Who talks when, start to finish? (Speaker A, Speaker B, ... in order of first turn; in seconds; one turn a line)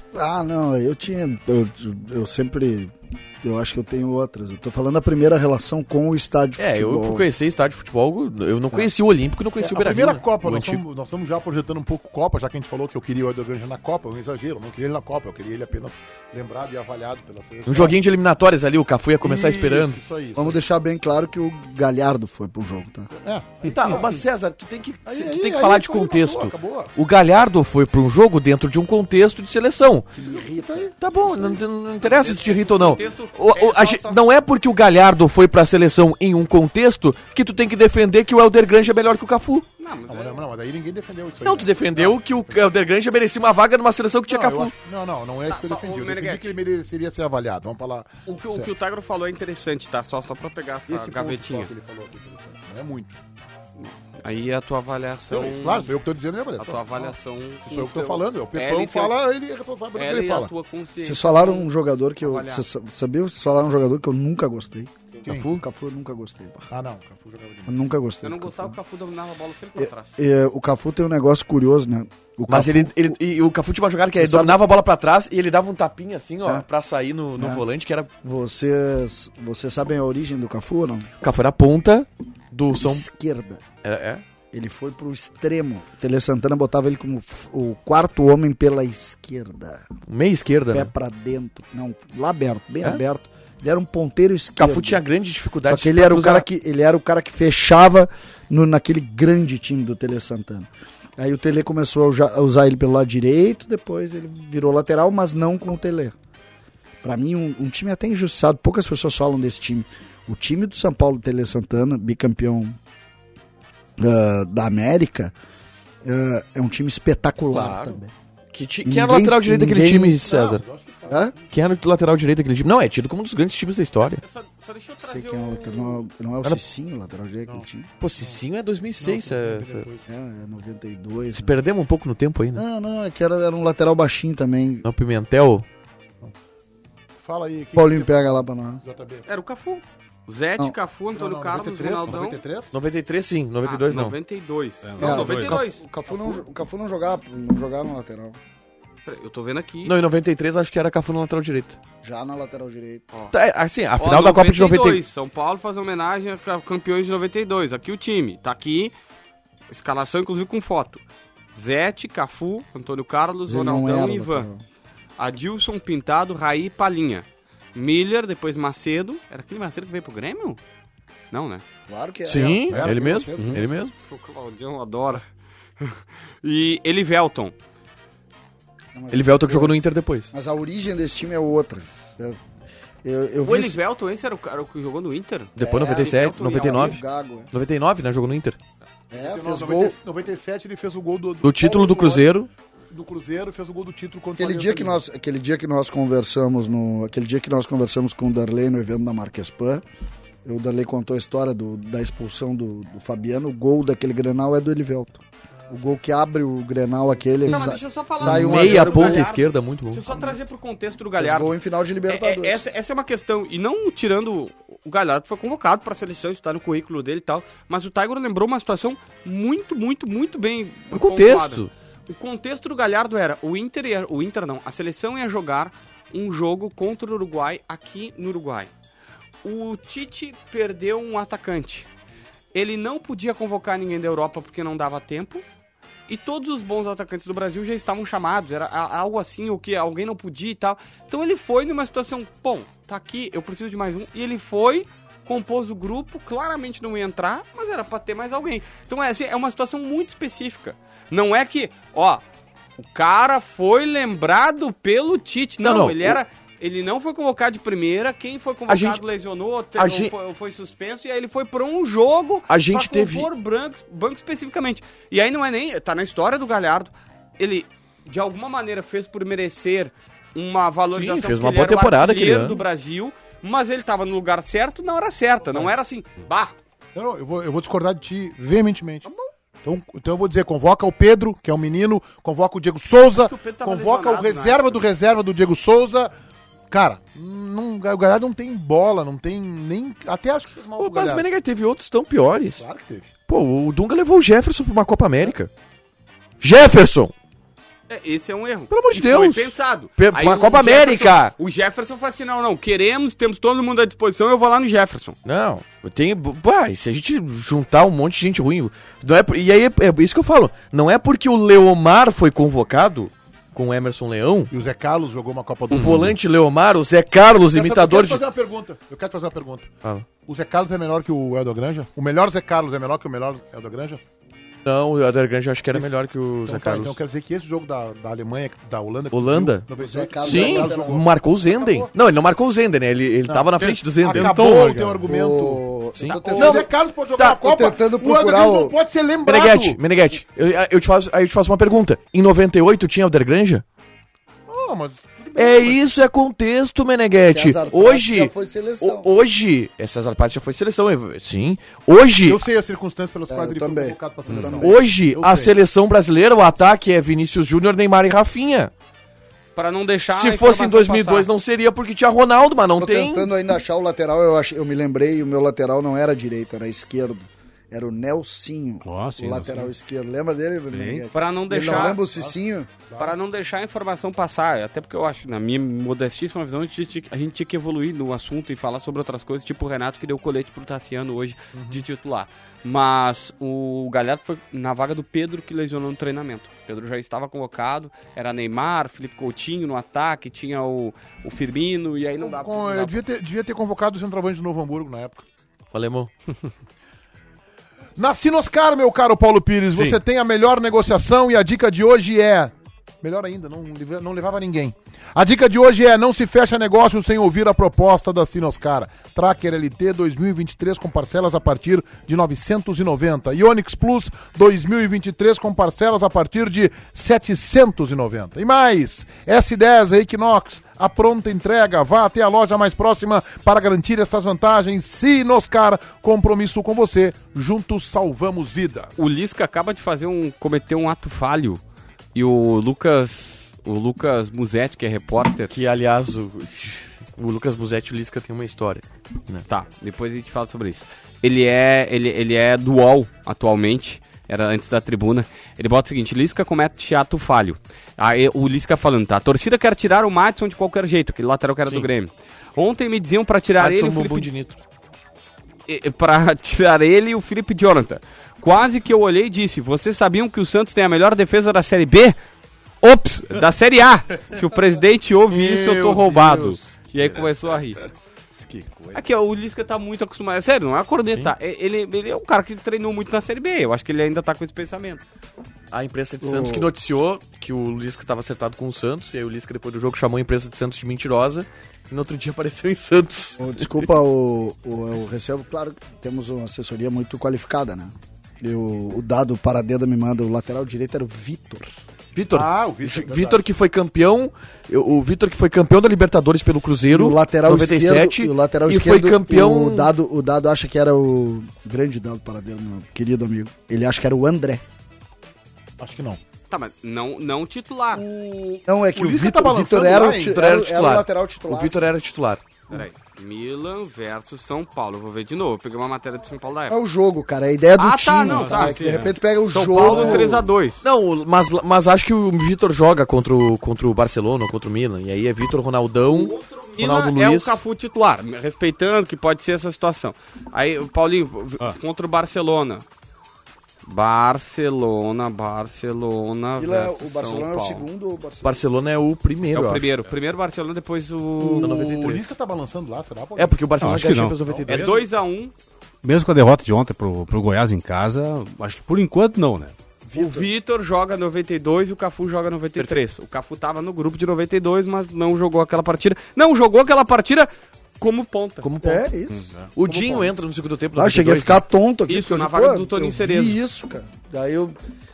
Speaker A: 0.1-7.3
Speaker B: 6.6-10.8
Speaker C: 9.6-18.0
Speaker B: 17.6-20.1
Speaker C: 19.2-20.6
Speaker A: 20.4-23.1
Speaker C: 23.1-24.2
Speaker B: 23.6-30.1
Speaker C: 25.1-26.9
Speaker A: 30.1-30.9
Speaker B: 30.9-39.7
Speaker D: 32.0-34.2
Speaker D: 39.8-40.4
Speaker C: 40.1-42.6
Speaker B: 41.4-44.7
Speaker C: 44.3-48.7
Speaker D: 45.5-46.5
Speaker D: 48.2-51.7
Speaker C: 50.9-53.2
Speaker D: 53.8-55.9
Speaker C: 55.3-60.5
Speaker D: 56.6-59.2
Speaker D: 59.9-62.6
Speaker A: 61.0-66.7
Speaker C: 65.2-65.5
Speaker B: 65.3-65.6
Speaker C: 66.7-67.8
Speaker A: 67.7-68.8
Speaker D: 68.2-70.2
Speaker A: 69.8-73.2
Speaker B: 72.5-78.1
Speaker A: 74.1-74.6
Speaker A: 77.4-77.6
Speaker A: 78.2-81.1
Speaker B: 81.2-83.0
Speaker A: 82.7-83.6
Speaker B: 83.8-84.2
Speaker A: 84.5-89.8
Speaker B: 90.1-90.9
Speaker A: 90.7-95.0
Speaker B: 94.6-96.4
Speaker A: 95.7-106.1
Speaker A: 107.0-112.8
Speaker A: 114.0-115.3
Speaker A: 116.0-118.1
Speaker B: 117.5-118.0
Speaker B: 118.5-120.6
Speaker A: 118.8-120.2
Speaker C: 120.2-121.4
Speaker B: 121.5-124.2
Speaker D: 124.0-126.1
Speaker A: 125.0-127.9
Speaker B: 128.0-129.9
Speaker C: 129.0-130.1
Speaker A: 130.1-131.6
Speaker B: 131.3-132.6
Speaker A: 132.6-134.8
Speaker B: 134.8-135.7
Speaker C: 137.2-139.2
Speaker A: 137.7-138.8
Speaker D: 139.3-142.4
Speaker C: 141.1-142.7
Speaker B: 142.7-144.2
Speaker D: 143.6-145.8
Speaker E: 144.8-145.6
Speaker A: 145.0-148.4
Speaker D: 149.1-149.9
Speaker B: 149.8-151.8
Speaker A: 152.0-153.1
Speaker B: 153.3-155.0
Speaker D: 154.0-158.9
Speaker D: 159.7-161.0
Speaker D: 161.5-164.5
Speaker A: 163.5-164.6
Speaker D: 165.2-170.6
Speaker D: 171.3-171.6
Speaker A: 171.9-173.2
Speaker B: 172.2-173.9
Speaker C: 172.6-173.7
Speaker D: 174.0-175.2
Speaker D: 175.8-177.5
Speaker A: 178.9-182.4
Speaker B: 179.1-180.3
Speaker A: 183.0-183.8
Speaker D: 183.4-187.0
Speaker B: 185.6-188.6
Speaker A: 185.6-187.5
Speaker C: 189.1-192.3
Speaker A: 189.1-190.0
Speaker B: 191.4-192.5
Speaker C: 192.9-195.0
Speaker A: 194.4-199.8
Speaker A: 200.4-209.3
Speaker D: 207.5-211.5
Speaker B: 208.2-210.0
Speaker A: 211.2-212.7
Speaker D: 212.1-228.7
Speaker B: 220.9-221.7
Speaker D: 229.4-231.9
Speaker D: 232.5-235.4
Speaker D: 236.1-252.2
Speaker D: 252.8-276.5
Speaker B: 255.6-256.2
Speaker B: 258.7-259.0
Speaker B: 259.8-260.1
Speaker B: 262.5-263.3
Speaker B: 270.9-272.6
Speaker C: 276.9-279.1
Speaker C: 279.6-286.1
Speaker D: 283.1-284.9
Speaker C: 286.7-291.3
Speaker B: 290.8-292.6
Speaker C: 292.6-293.1
Speaker B: 293.3-295.5
Speaker B: 296.4-297.1
Speaker D: 297.9-305.1
Speaker B: 298.7-301.3
Speaker B: 305.2-314.5
Speaker C: 314.5-316.1
Speaker B: 315.7-318.2
Speaker C: 317.5-324.0
Speaker B: 319.8-320.1
Speaker B: 324.6-327.0
Speaker C: 326.4-331.9
Speaker B: 329.1-329.7
Speaker A: 329.8-331.0
Speaker B: 330.2-335.1
Speaker C: 333.3-339.8
Speaker D: 334.2-334.6
Speaker A: 335.0-336.7
Speaker B: 336.0-337.4
Speaker A: 337.4-338.8
Speaker B: 339.2-343.6
Speaker C: 344.5-345.8
Speaker B: 345.4-352.4
Speaker A: 347.3-349.1
Speaker C: 352.2-355.5
Speaker A: 353.3-354.8
Speaker B: 354.3-358.7
Speaker D: 359.5-361.3
Speaker B: 360.1-363.3
Speaker A: 362.8-372.7
Speaker E: 368.8-369.7
Speaker E: 370.7-371.0
Speaker D: 371.1-372.0
Speaker C: 371.7-372.3
Speaker C: 372.9-373.1
Speaker D: 373.0-393.0
Speaker C: 381.5-381.8
Speaker C: 392.2-395.2
Speaker B: 395.7-396.1
Speaker C: 398.0-429.0
Speaker D: 429.0-431.6
Speaker D: 432.1-435.5
Speaker B: 435.5-439.4
Speaker D: 439.5-454.3
Speaker B: 453.6-454.6
Speaker D: 455.7-462.2
Speaker D: 462.8-467.8
Speaker B: 465.3-467.6
Speaker B: 468.5-468.9
Speaker D: 468.9-475.0
Speaker B: 475.7-483.8
Speaker A: 476.2-476.7
Speaker A: 483.4-491.7
Speaker B: 492.1-499.9
Speaker C: 492.3-493.4
Speaker A: 496.9-504.6
Speaker C: 505.8-506.2
Speaker D: 506.5-508.0
Speaker C: 507.9-510.4
Speaker A: 508.7-511.9
Speaker B: 510.2-512.4
Speaker D: 512.7-516.8
Speaker A: 516.7-520.4
Speaker D: 517.8-520.8
Speaker E: 518.2-519.1
Speaker B: 519.8-527.6
Speaker D: 526.1-532.9
Speaker D: 533.9-537.8
Speaker A: 536.6-538.6
Speaker B: 538.4-539.9
Speaker D: 539.5-541.8
Speaker C: 541.4-543.7
Speaker B: 541.6-542.3
Speaker B: 543.4-545.0
Speaker E: 543.8-544.4
Speaker C: 544.4-545.0
Speaker D: 544.7-545.5
Speaker E: 546.0-549.7
Speaker A: 550.0-550.5
Speaker D: 550.1-558.6
Speaker B: 558.6-559.1
Speaker A: 558.8-560.3
Speaker B: 559.7-561.6
Speaker A: 560.9-564.8
Speaker D: 562.1-563.6